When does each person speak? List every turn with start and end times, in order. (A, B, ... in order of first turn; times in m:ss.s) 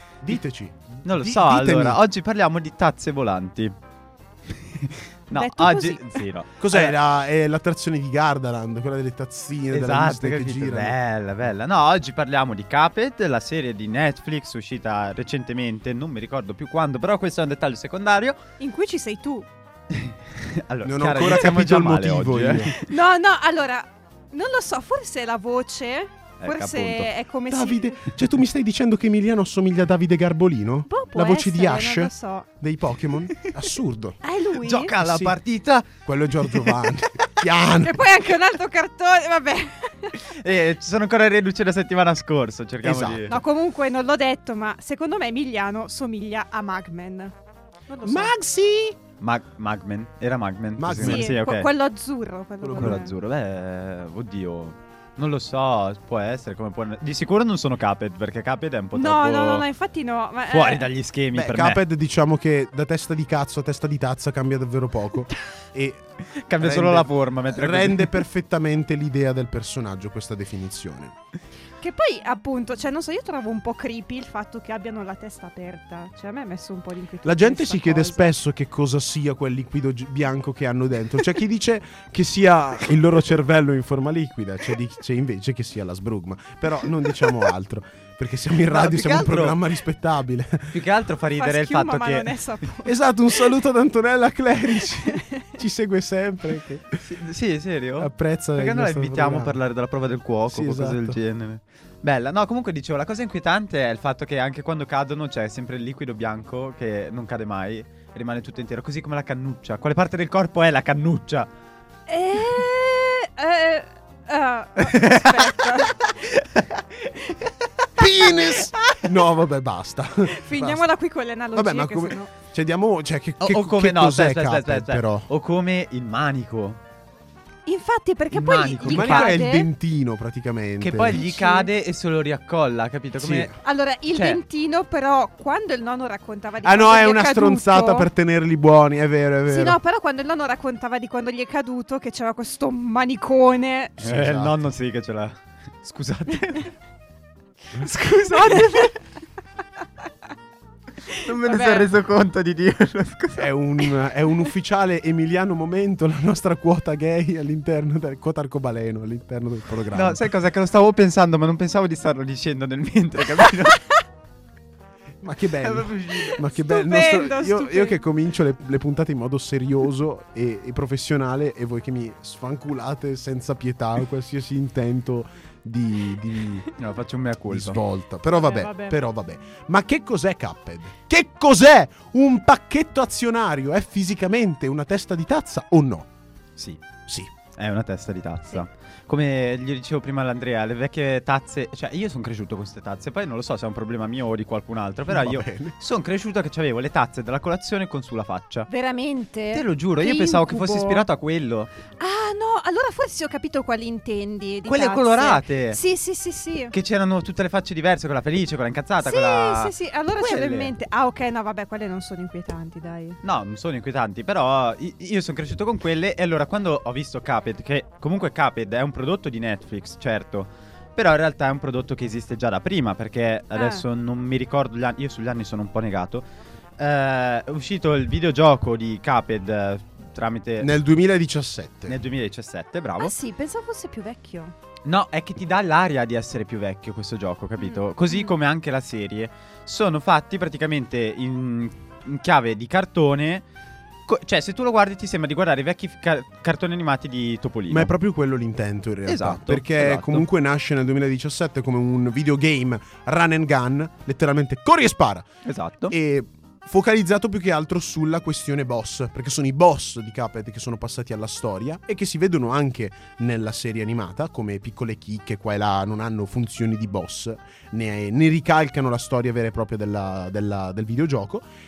0:00.2-0:02.0 A
0:01.0-0:03.7 B
0:04.5-0:07.0 B
0:05.3-0:06.2 C
0:06.6-0:11.0 A
0:09.7-0:18.4 B
0:18.6-0:19.5 C
0:19.9-0:22.8 B
0:20.8-0:22.7 A
0:22.8-0:28.0 C
0:26.4-0:27.1 B
0:27.5-0:34.2 A
0:30.9-0:32.5 C
0:34.2-0:34.9 C
0:34.6-0:37.3 B
0:34.9-0:35.4 A
0:36.1-0:38.0 A
0:37.8-0:40.2 C
0:40.2-0:43.4 B
0:42.8-0:43.4 A
0:43.3-0:47.3 C
0:47.9-0:48.3 C
0:48.0-0:49.0 A
0:49.2-0:51.7 B
0:50.8-0:51.4 A
0:51.0-0:53.1 C
0:52.6-0:53.0 A
0:52.8-0:59.6 B
0:58.9-1:00.9 C
1:00.5-1:01.8 B
1:01.3-1:06.0 A
1:06.4-1:08.2 B
1:06.6-1:11.2 A
1:11.8-1:18.3 C
1:17.2-1:30.8 A
1:28.7-1:29.6 B
1:30.7-1:32.5 B
1:31.4-1:33.0 C
1:32.8-1:37.1 A
1:35.0-1:35.5 C
1:37.0-1:51.5 B
1:38.0-1:39.6 A
1:40.5-1:41.2 A
1:52.1-1:56.1 C
1:54.8-1:57.5 B
1:58.0-2:00.8 A
1:58.4-1:59.0 B
2:00.3-2:02.3 C
2:01.6-2:05.3 A
2:03.4-2:06.8 B
2:07.7-2:09.7 C
2:08.3-2:09.4 B
2:08.9-2:11.2 A
2:10.8-2:13.5 B
2:11.1-2:11.7 C
2:13.2-2:13.6 A
2:13.6-2:18.1 C
2:14.1-2:14.4 B
2:16.6-2:19.8 A
2:19.5-2:24.0 C
2:24.0-2:24.6 A
2:24.0-2:26.8 B
2:27.8-2:29.0 C
2:27.8-2:28.9 B
2:31.1-2:31.9 C
2:31.1-2:33.5 B
2:33.4-2:40.3 A
2:39.9-2:43.8 B
2:45.2-2:56.7 A
2:45.6-2:46.4 B
2:46.5-2:48.0 C
2:56.8-2:57.8 B
2:57.5-3:06.1 A
2:58.3-2:59.0 C
3:07.1-3:07.3 A
3:07.5-3:18.7 B
3:15.1-3:15.7 A
3:18.7-3:21.0 C
3:19.5-3:21.7 B
3:22.0-3:26.7 C
3:24.7-3:25.8 B
3:26.7-3:30.7 B
3:29.0-3:33.2 C
3:33.2-3:46.2 B
3:43.5-3:43.8 C
3:46.8-3:50.8 B
3:50.6-3:52.0 A
3:51.9-3:53.2 B
3:53.0-3:54.5 C
3:54.9-4:03.4 B
3:57.6-3:58.4 C
4:04.1-4:07.9 B
4:07.7-4:15.3 A
4:09.1-4:10.3 B
4:15.4-4:15.9 B
4:15.9-4:31.4 A